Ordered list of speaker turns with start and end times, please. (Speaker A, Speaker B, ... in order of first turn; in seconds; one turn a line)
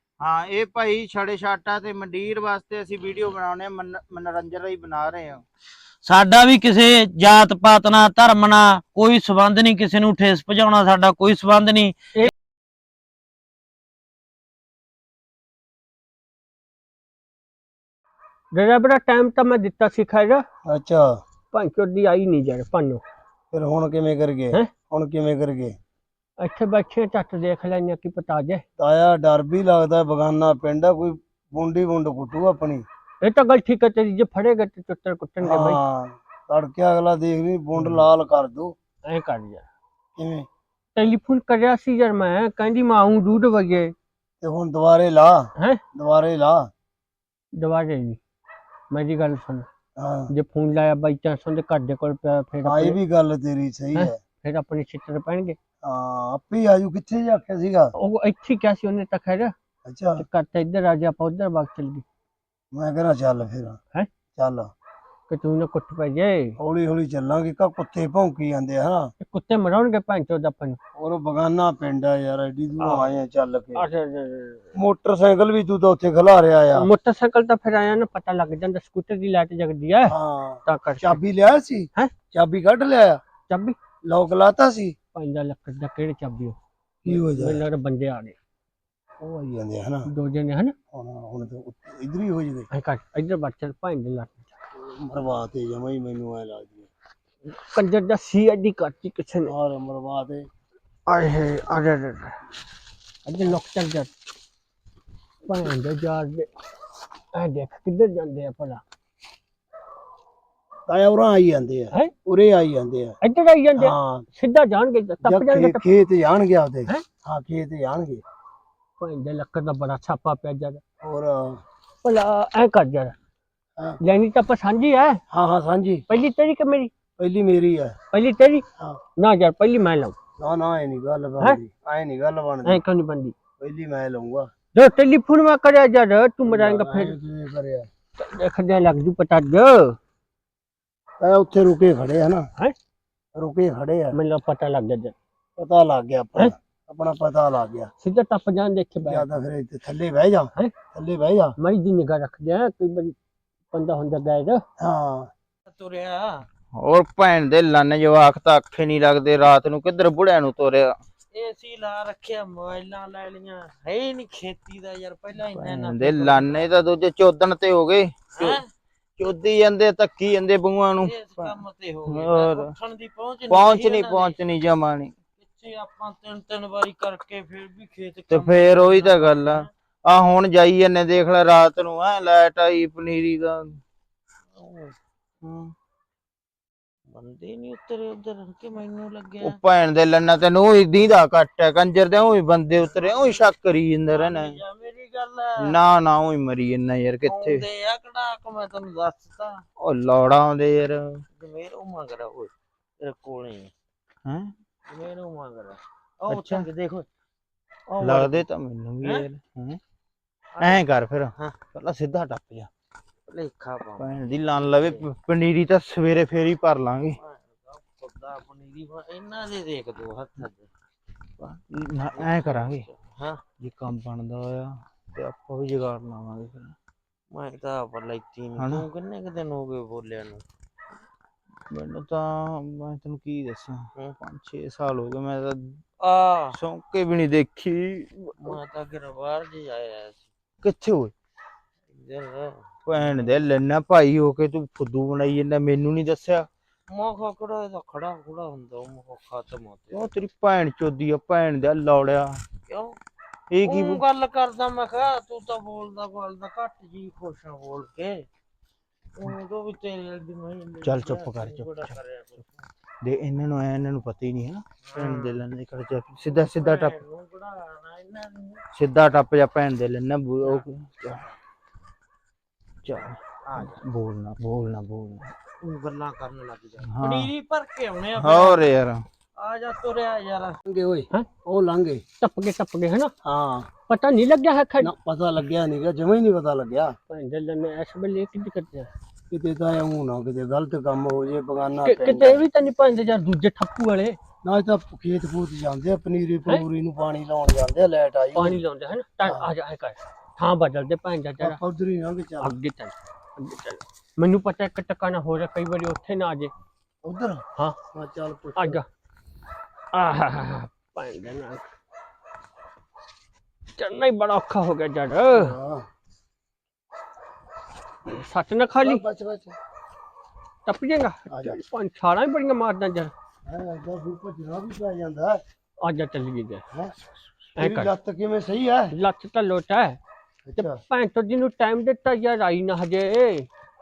Speaker A: 0.2-5.4
Speaker B: 6.0-11.9
Speaker C: 18.5-20.4
Speaker D: 20.6-21.2
Speaker C: 21.5-23.0
Speaker D: 23.5-25.8
Speaker C: 26.4-28.6
Speaker D: 28.8-32.8
Speaker C: 33.2-35.8
Speaker D: 35.4-38.7
Speaker C: 37.8-38.0
Speaker C: 39.0-39.6
Speaker D: 40.1-40.5
Speaker C: 41.0-43.9
Speaker D: 44.4-46.7
Speaker C: 47.5-48.2
Speaker C: 48.9-49.7
Speaker D: 50.0-50.3
Speaker C: 50.3-53.0
Speaker D: 52.6-54.2
Speaker C: 53.9-55.6
Speaker D: 55.8-57.9
Speaker C: 58.0-59.5
Speaker D: 59.9-60.2
Speaker C: 60.1-62.0
Speaker D: 62.7-63.8
Speaker D: 64.3-64.7
Speaker C: 65.3-66.5
Speaker D: 66.6-69.1
Speaker C: 69.2-70.8
Speaker D: 71.0-73.8
Speaker C: 72.8-73.1
Speaker C: 73.7-74.7
Speaker D: 74.7-76.9
Speaker C: 76.7-81.2
Speaker D: 80.0-83.2
Speaker C: 83.5-83.8
Speaker D: 84.0-84.9
Speaker C: 85.1-88.3
Speaker D: 87.0-87.6
Speaker D: 89.2-90.1
Speaker C: 90.1-90.7
Speaker D: 90.9-92.7
Speaker C: 92.7-94.5
Speaker D: 94.7-96.9
Speaker C: 97.5-99.5
Speaker D: 99.4-100.5
Speaker C: 101.1-102.4
Speaker C: 103.3-104.1
Speaker C: 105.5-106.5
Speaker C: 107.3-108.8
Speaker D: 110.9-113.2
Speaker C: 113.2-115.8
Speaker D: 113.7-114.3
Speaker D: 115.2-118.2
Speaker C: 119.0-120.8
Speaker D: 121.0-121.6
Speaker C: 122.0-123.1
Speaker C: 124.0-125.2
Speaker D: 125.3-126.0
Speaker C: 126.1-126.9
Speaker D: 127.2-128.0
Speaker C: 128.1-128.6
Speaker C: 129.2-130.2
Speaker D: 130.4-132.8
Speaker C: 132.6-133.3
Speaker D: 133.6-134.5
Speaker C: 134.7-137.2
Speaker D: 136.4-137.9
Speaker C: 138.2-140.0
Speaker D: 141.2-142.5
Speaker D: 143.3-144.2
Speaker C: 144.1-145.1
Speaker D: 145.6-147.9
Speaker C: 148.0-149.2
Speaker D: 148.9-151.5
Speaker C: 151.6-153.2
Speaker C: 153.7-154.6
Speaker D: 154.8-155.3
Speaker B: 155.7-156.4
Speaker A: 156.8-160.9
Speaker B: 161.3-166.6
Speaker A: 165.4-168.6
Speaker B: 168.4-168.7
Speaker A: 169.2-172.7
Speaker B: 171.0-174.3
Speaker A: 173.5-175.1
Speaker B: 175.4-179.7
Speaker A: 178.3-183.8
Speaker B: 184.5-184.9
Speaker A: 185.4-185.7
Speaker B: 187.1-189.5
Speaker A: 189.4-194.6
Speaker B: 194.1-195.6
Speaker A: 195.6-197.6
Speaker B: 197.2-199.6
Speaker A: 199.8-201.2
Speaker B: 201.3-203.7
Speaker A: 204.2-204.5
Speaker B: 204.9-207.1
Speaker A: 206.3-206.7
Speaker B: 207.9-208.4
Speaker A: 208.0-209.8
Speaker A: 210.6-212.7
Speaker B: 213.3-214.1
Speaker A: 214.0-217.2
Speaker B: 217.2-220.7
Speaker A: 221.4-222.8
Speaker B: 222.9-223.4
Speaker A: 223.6-226.7
Speaker B: 227.3-230.4
Speaker A: 228.6-228.8
Speaker A: 231.7-235.8
Speaker B: 236.0-236.6
Speaker A: 236.5-238.6
Speaker B: 238.5-240.2
Speaker A: 240.6-241.1
Speaker B: 241.9-242.7
Speaker A: 242.8-246.5
Speaker B: 246.9-250.0
Speaker A: 249.9-252.4
Speaker B: 252.7-253.0
Speaker A: 253.5-254.0
Speaker B: 253.7-258.2
Speaker B: 259.1-262.7
Speaker A: 260.8-261.9
Speaker A: 263.0-267.0
Speaker B: 264.9-265.4
Speaker B: 266.4-268.6
Speaker A: 268.7-271.3
Speaker A: 272.8-275.3
Speaker B: 273.5-273.8
Speaker B: 275.6-278.6
Speaker A: 276.8-277.3
Speaker A: 278.2-279.0
Speaker B: 279.4-280.6
Speaker D: 280.7-282.0
Speaker C: 282.2-283.1
Speaker D: 283.2-283.7
Speaker C: 283.9-284.9
Speaker D: 284.8-286.9
Speaker C: 287.1-288.9
Speaker D: 289.3-292.4
Speaker C: 291.8-294.2
Speaker D: 294.4-298.6
Speaker C: 298.3-301.6
Speaker D: 301.4-302.5
Speaker C: 302.4-306.5
Speaker D: 307.0-308.8
Speaker C: 308.6-308.8
Speaker C: 309.9-311.7
Speaker C: 313.8-315.5
Speaker D: 315.3-315.9
Speaker C: 318.1-319.0
Speaker D: 318.8-319.5
Speaker C: 320.7-323.1
Speaker D: 321.3-321.6
Speaker D: 323.4-325.4
Speaker C: 325.8-326.6
Speaker D: 327.5-328.9
Speaker C: 327.6-327.9
Speaker C: 328.9-330.0
Speaker D: 330.5-330.8
Speaker C: 330.6-333.5